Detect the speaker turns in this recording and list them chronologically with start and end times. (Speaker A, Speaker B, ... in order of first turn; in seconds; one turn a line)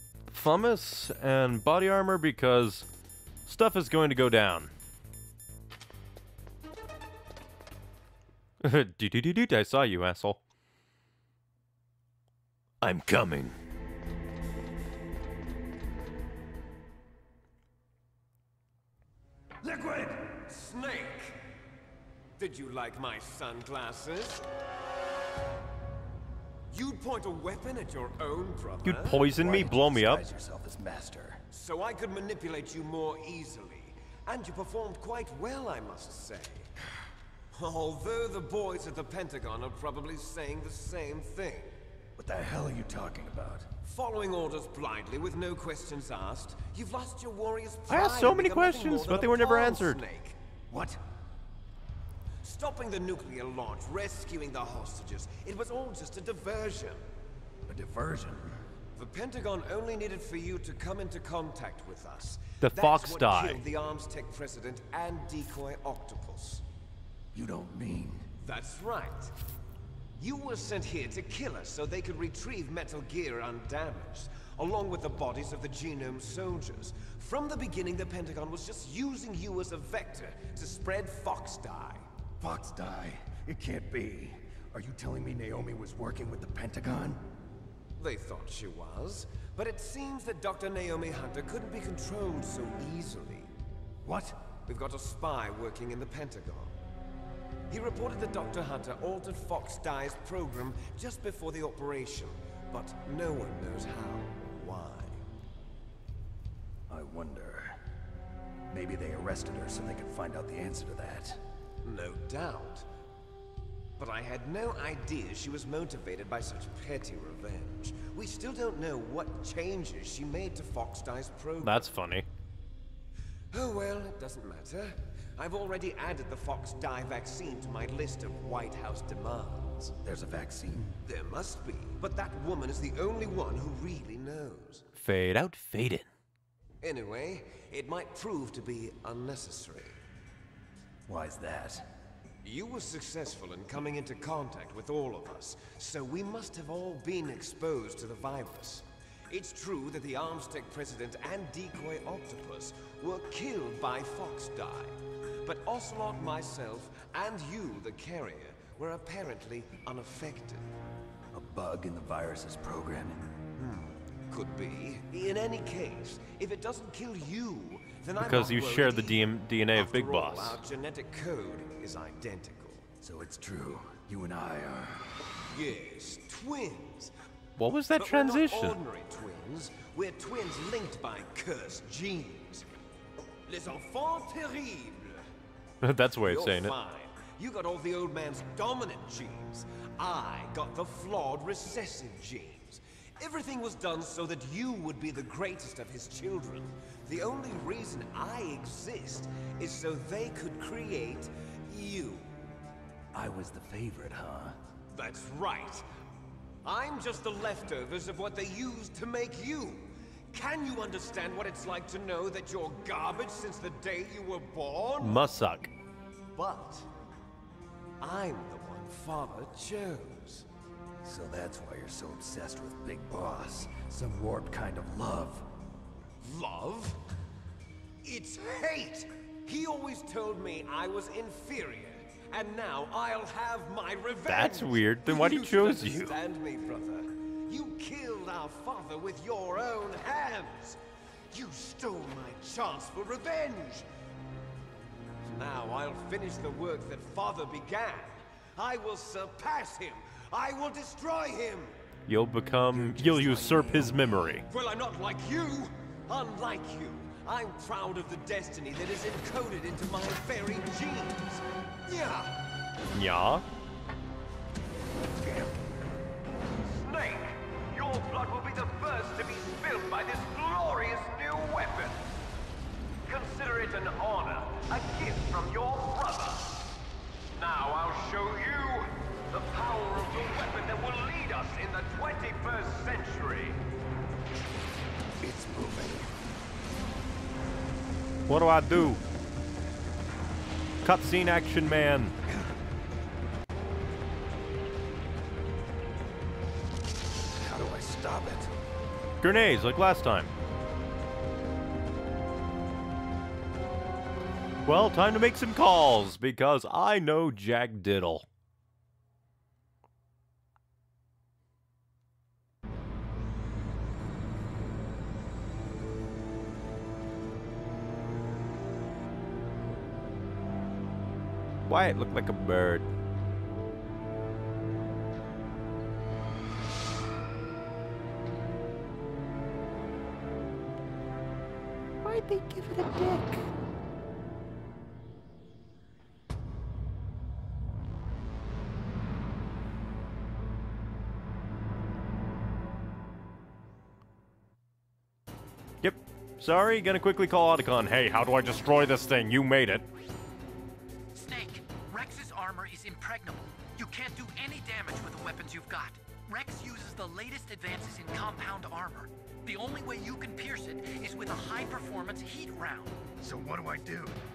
Speaker A: 0.3-2.9
Speaker A: 3.5-4.7
Speaker A: 8.6-10.4
Speaker A: 12.8-13.6
Speaker B: 19.6-20.3
Speaker C: 20.2-21.4
Speaker C: 22.4-24.4
Speaker C: 26.7-29.4
Speaker A: 28.8-30.2
Speaker B: 29.4-31.4
Speaker C: 31.5-36.7
Speaker C: 37.5-41.8
Speaker B: 42.2-43.7
Speaker C: 43.8-50.4
Speaker A: 47.9-50.0
Speaker B: 50.7-51.0
Speaker C: 52.4-57.0
Speaker B: 57.7-58.6
Speaker C: 59.0-66.6
Speaker A: 62.6-63.7
Speaker B: 67.3-68.3
Speaker C: 68.4-69.3
Speaker C: 70.2-82.1
Speaker B: 82.4-87.2
Speaker C: 88.0-93.5
Speaker B: 94.0-94.5
Speaker C: 94.7-96.8
Speaker C: 97.7-105.2
Speaker B: 106.9-107.8
Speaker B: 108.7-111.4
Speaker C: 111.8-112.9
Speaker C: 114.0-121.9
Speaker A: 121.6-122.3
Speaker C: 123.5-129.9
Speaker B: 130.0-131.0
Speaker C: 131.1-134.8
Speaker A: 135.0-136.1
Speaker C: 136.8-140.0
Speaker B: 141.1-141.8
Speaker C: 142.4-160.7
Speaker B: 161.3-163.3
Speaker C: 163.6-172.9
Speaker A: 168.2-170.6
Speaker B: 173.0-175.2
Speaker C: 175.5-177.1
Speaker A: 177.6-178.8
Speaker C: 178.0-182.7
Speaker C: 183.5-185.3
Speaker A: 185.8-186.8
Speaker C: 186.2-202.3
Speaker B: 203.1-204.6
Speaker C: 204.9-205.9
Speaker C: 206.6-215.3
Speaker A: 215.0-215.7
Speaker C: 216.3-216.9
Speaker C: 218.0-220.5
Speaker B: 221.0-225.5
Speaker C: 226.2-227.0
Speaker C: 228.0-240.8
Speaker A: 234.3-236.2
Speaker C: 241.3-243.9
Speaker C: 245.2-251.7
Speaker A: 252.1-254.4
Speaker C: 253.0-253.7
Speaker B: 253.3-253.9
Speaker C: 254.4-262.4
Speaker A: 262.9-263.4
Speaker B: 265.2-265.5
Speaker C: 266.6-272.1
Speaker C: 273.1-276.6
Speaker C: 277.3-283.6
Speaker B: 285.2-286.1
Speaker A: 288.3-289.0
Speaker A: 290.8-292.1
Speaker B: 297.4-298.5
Speaker A: 299.2-300.3
Speaker A: 304.7-308.3
Speaker A: 321.6-322.9
Speaker A: 332.0-333.4
Speaker A: 345.8-349.9
Speaker D: 351.1-363.0
Speaker B: 363.2-364.2